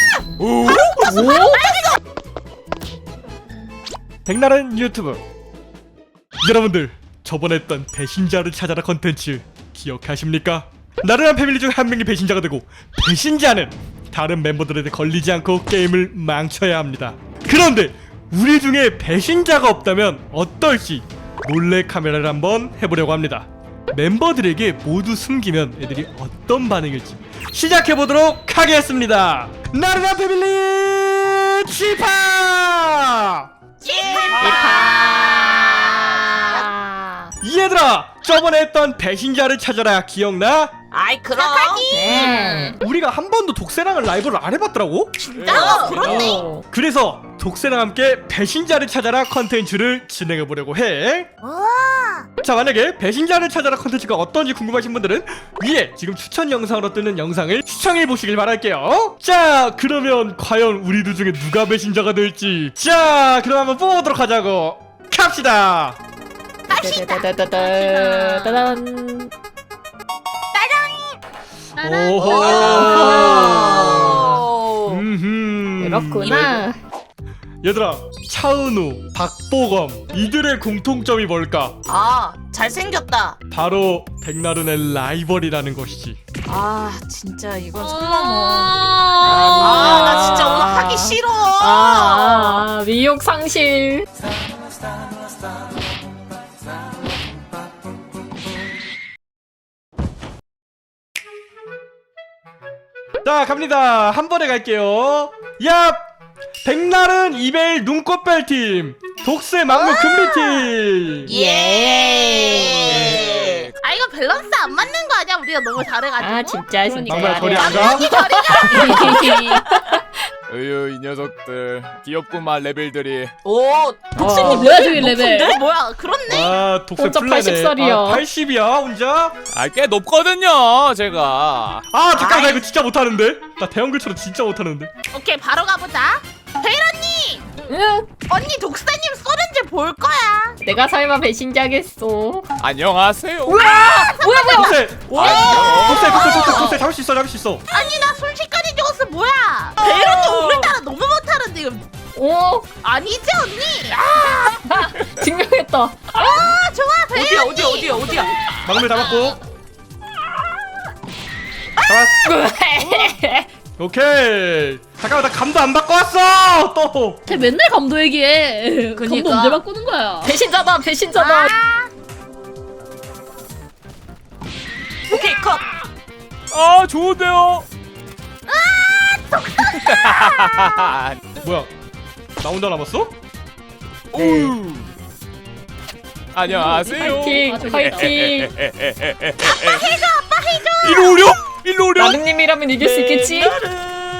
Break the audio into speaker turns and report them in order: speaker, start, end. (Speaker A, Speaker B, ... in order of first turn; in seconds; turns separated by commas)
Speaker A: 0.4-1.3, Speaker B: 0.6-2.0, Speaker C: 1.0-1.8, Speaker D: 4.3-5.2, Speaker D: 6.4-33.5, Speaker B: 33.8-36.7, Speaker E: 34.3-35.0, Speaker A: 34.3-34.6, Speaker C: 34.4-37.3, Speaker D: 37.4-40.7, Speaker B: 40.9-42.0, Speaker E: 41.4-42.4, Speaker C: 41.9-42.8, Speaker D: 42.1-51.3, Speaker F: 42.3-42.8, Speaker E: 45.2-46.4, Speaker A: 45.3-46.4, Speaker B: 45.6-46.4, Speaker C: 46.1-46.7, Speaker E: 51.4-52.3, Speaker D: 52.4-66.0, Speaker B: 66.7-67.3, Speaker C: 66.7-69.3, Speaker F: 67.4-68.8, Speaker B: 70.5-71.2, Speaker F: 71.8-73.0, Speaker D: 71.8-74.3, Speaker B: 72.2-75.1, Speaker C: 72.5-74.4, Speaker D: 74.9-76.6, Speaker C: 75.8-76.7, Speaker B: 76.2-76.7, Speaker D: 77.6-81.8, Speaker B: 81.9-83.4, Speaker D: 83.5-86.2, Speaker B: 86.5-92.7, Speaker F: 87.8-90.3, Speaker C: 89.2-94.1, Speaker D: 103.2-106.0, Speaker D: 106.6-111.3, Speaker E: 109.9-110.2, Speaker B: 111.2-113.7, Speaker E: 111.3-113.1, Speaker C: 112.1-112.8, Speaker A: 112.8-113.8, Speaker E: 113.8-119.6, Speaker C: 116.2-120.0, Speaker D: 117.1-118.1, Speaker F: 118.8-119.6, Speaker A: 120.5-123.3, Speaker B: 123.4-125.6, Speaker C: 124.2-124.9, Speaker F: 124.3-125.6, Speaker E: 125.5-126.5, Speaker D: 126.3-129.4, Speaker C: 127.0-128.2, Speaker A: 129.5-131.9, Speaker D: 131.9-134.9, Speaker B: 132.2-132.6, Speaker E: 135.1-137.4, Speaker C: 137.7-138.1, Speaker E: 138.3-140.6, Speaker C: 140.6-142.5, Speaker A: 142.6-143.7, Speaker C: 143.5-144.8, Speaker E: 143.9-146.8, Speaker D: 144.5-147.6, Speaker A: 145.1-146.6, Speaker E: 147.7-151.8, Speaker B: 149.8-150.8, Speaker C: 152.2-152.7, Speaker E: 152.8-154.4, Speaker A: 154.1-154.6, Speaker C: 154.7-156.2, Speaker E: 156.2-158.1, Speaker B: 157.1-158.3, Speaker D: 158.6-159.4, Speaker D: 161.8-162.2, Speaker C: 162.2-163.5, Speaker D: 163.8-167.2, Speaker F: 167.3-170.3, Speaker B: 169.0-169.6, Speaker C: 170.2-171.5, Speaker B: 171.4-171.7, Speaker B: 175.1-175.7, Speaker A: 176.5-177.7, Speaker E: 178.5-179.7, Speaker A: 179.6-181.2, Speaker D: 181.4-181.7, Speaker D: 182.4-183.2, Speaker A: 184.1-184.9, Speaker A: 186.3-190.0, Speaker C: 186.5-188.5, Speaker F: 187.3-188.3, Speaker E: 189.5-191.3, Speaker A: 190.6-192.2, Speaker C: 192.0-193.6, Speaker B: 192.8-194.1